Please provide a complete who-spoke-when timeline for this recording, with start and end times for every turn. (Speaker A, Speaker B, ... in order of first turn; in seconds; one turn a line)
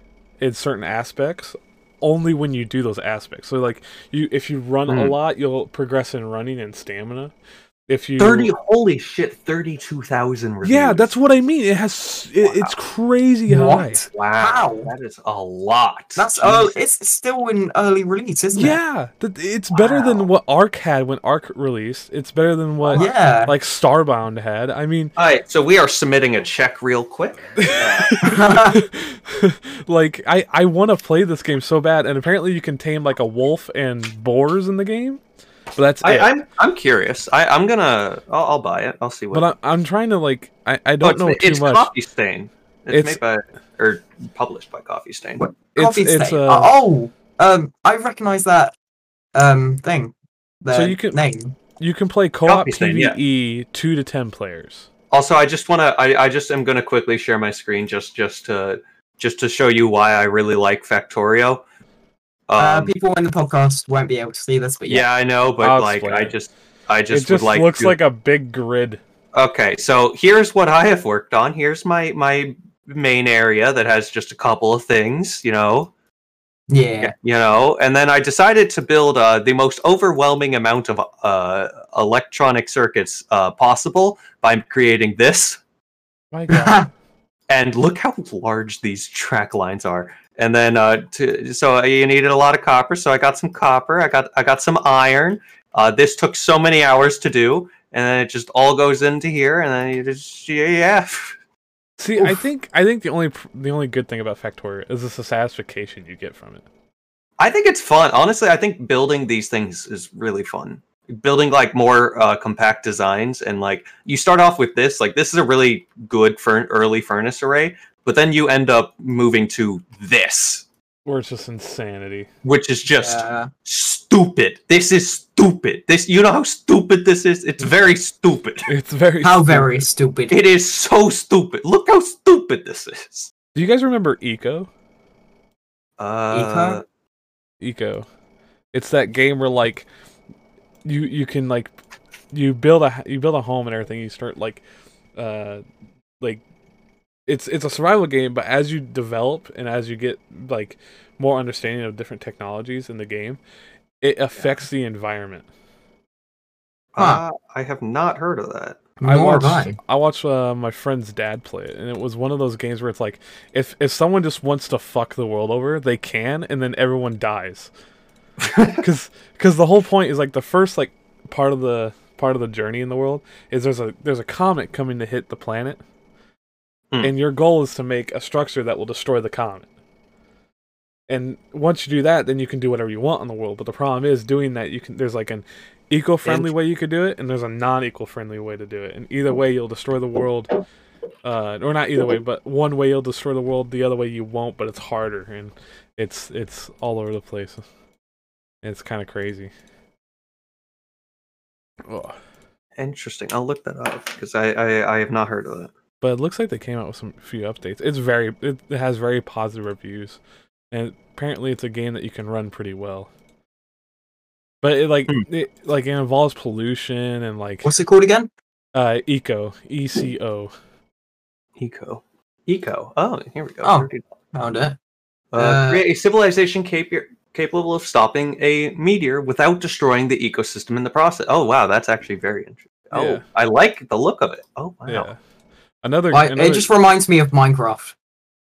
Speaker A: 0.4-7.3
Speaker B: 4.9-5.2
Speaker A: 7.9-8.5
Speaker B: 8.2-11.1
Speaker A: 10.6-14.1
Speaker B: 12.4-12.7
Speaker C: 13.5-14.9
Speaker B: 14.1-16.7
Speaker C: 16.1-18.8
Speaker A: 18.5-25.1
Speaker C: 19.7-20.2
Speaker C: 22.9-23.5
Speaker B: 25.2-28.2
Speaker A: 27.6-35.2
Speaker C: 28.2-28.8
Speaker A: 35.7-36.3
Speaker B: 36.0-39.5
Speaker A: 39.3-41.9
Speaker B: 41.0-45.5
Speaker A: 42.9-43.2
Speaker C: 45.4-48.7
Speaker A: 45.7-46.7
Speaker C: 49.3-51.6
Speaker A: 50.7-51.2
Speaker A: 51.8-54.9
Speaker B: 52.5-53.2
Speaker B: 55.1-61.6
Speaker B: 62.5-62.9
Speaker C: 62.6-65.0
Speaker B: 64.9-68.0
Speaker A: 65.6-66.3
Speaker A: 67.1-69.0
Speaker B: 69.3-75.9
Speaker C: 76.7-77.1
Speaker B: 77.0-85.6
Speaker A: 86.3-86.9
Speaker C: 86.5-86.9
Speaker B: 87.5-101.3
Speaker A: 102.0-106.6
Speaker B: 107.4-120.6
Speaker A: 121.0-122.3
Speaker B: 122.4-128.7
Speaker C: 123.0-123.5
Speaker A: 128.7-129.8
Speaker C: 129.2-130.4
Speaker B: 130.3-133.3
Speaker A: 133.5-134.7
Speaker B: 136.0-136.8
Speaker C: 136.3-136.8
Speaker A: 137.6-138.1
Speaker A: 138.7-139.8
Speaker A: 140.8-141.7
Speaker A: 142.3-144.6
Speaker A: 145.2-145.6
Speaker A: 147.3-153.4
Speaker A: 154.0-155.4
Speaker B: 156.9-158.8
Speaker C: 159.0-159.8
Speaker A: 159.0-167.7
Speaker B: 168.4-168.8
Speaker A: 168.8-175.8
Speaker A: 177.0-179.7
Speaker A: 181.1-190.5
Speaker B: 186.2-186.5
Speaker A: 191.2-197.6
Speaker A: 198.6-199.5
Speaker A: 201.9-202.2
Speaker B: 202.8-205.7
Speaker A: 206.0-210.2
Speaker A: 210.7-213.1
Speaker A: 214.6-217.7
Speaker C: 217.6-218.3
Speaker A: 218.7-220.5
Speaker B: 221.6-224.0
Speaker C: 223.6-224.8
Speaker B: 225.3-235.1
Speaker C: 225.3-225.8
Speaker A: 232.9-233.2
Speaker A: 234.9-235.2
Speaker A: 235.8-236.7
Speaker C: 236.1-237.9